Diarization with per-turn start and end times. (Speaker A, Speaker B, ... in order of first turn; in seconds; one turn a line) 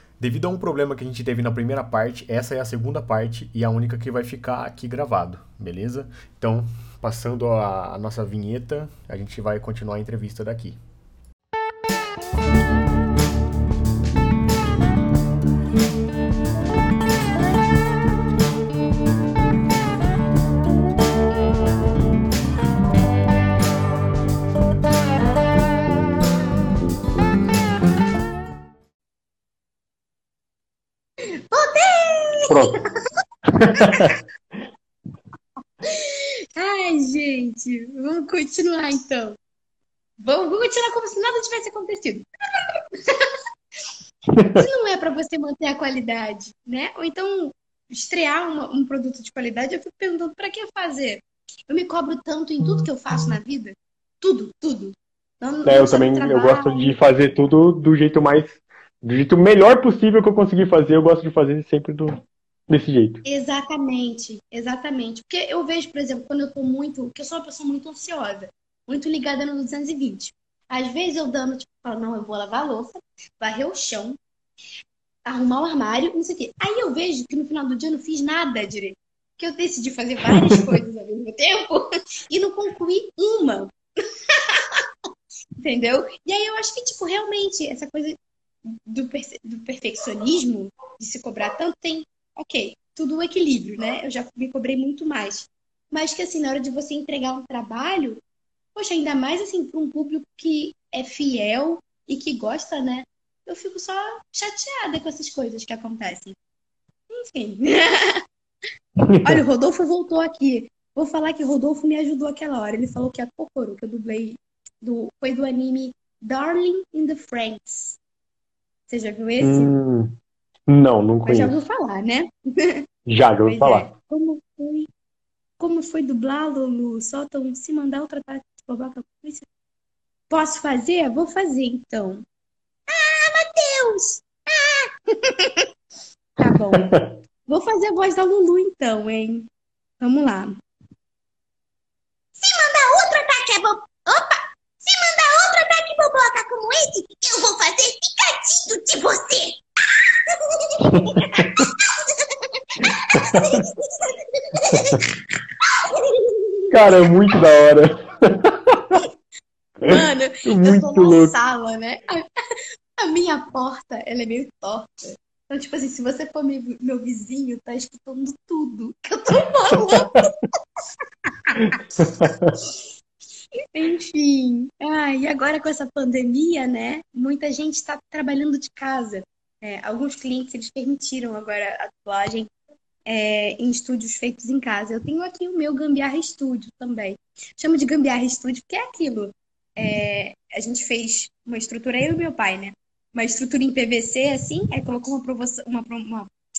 Speaker A: 0.2-10.8
Speaker B: 31.5-32.5
Speaker C: 32.5-32.7
Speaker C: 33.5-34.2
Speaker B: 33.8-34.1
Speaker B: 35.8-39.4
Speaker B: 40.2-42.2
Speaker C: 44.3-44.6
Speaker B: 44.5-56.9
Speaker C: 55.6-63.2
Speaker B: 63.2-74.2
Speaker B: 75.2-83.7
Speaker B: 85.6-88.2
Speaker B: 88.7-98.2
Speaker B: 98.7-106.3
Speaker B: 107.1-108.2
Speaker C: 109.0-109.4
Speaker B: 109.2-118.0
Speaker B: 118.9-119.7
Speaker C: 119.4-120.1
Speaker C: 120.7-121.6
Speaker B: 121.2-122.8
Speaker C: 123.0-123.9
Speaker B: 123.4-124.9
Speaker B: 125.6-129.5
Speaker B: 130.3-132.2
Speaker B: 132.9-135.7
Speaker B: 136.4-139.5
Speaker C: 136.7-137.1
Speaker B: 140.0-140.6
Speaker B: 142.3-149.6
Speaker B: 150.3-155.1
Speaker C: 150.9-151.7
Speaker C: 153.2-153.6
Speaker C: 154.7-155.0
Speaker B: 155.7-157.1
Speaker C: 156.7-159.0
Speaker B: 159.8-162.2
Speaker C: 160.4-161.3
Speaker B: 163.0-164.9
Speaker B: 165.5-170.3
Speaker C: 169.9-170.2
Speaker B: 171.4-172.1
Speaker C: 171.6-172.6
Speaker B: 173.7-182.5
Speaker B: 183.1-196.3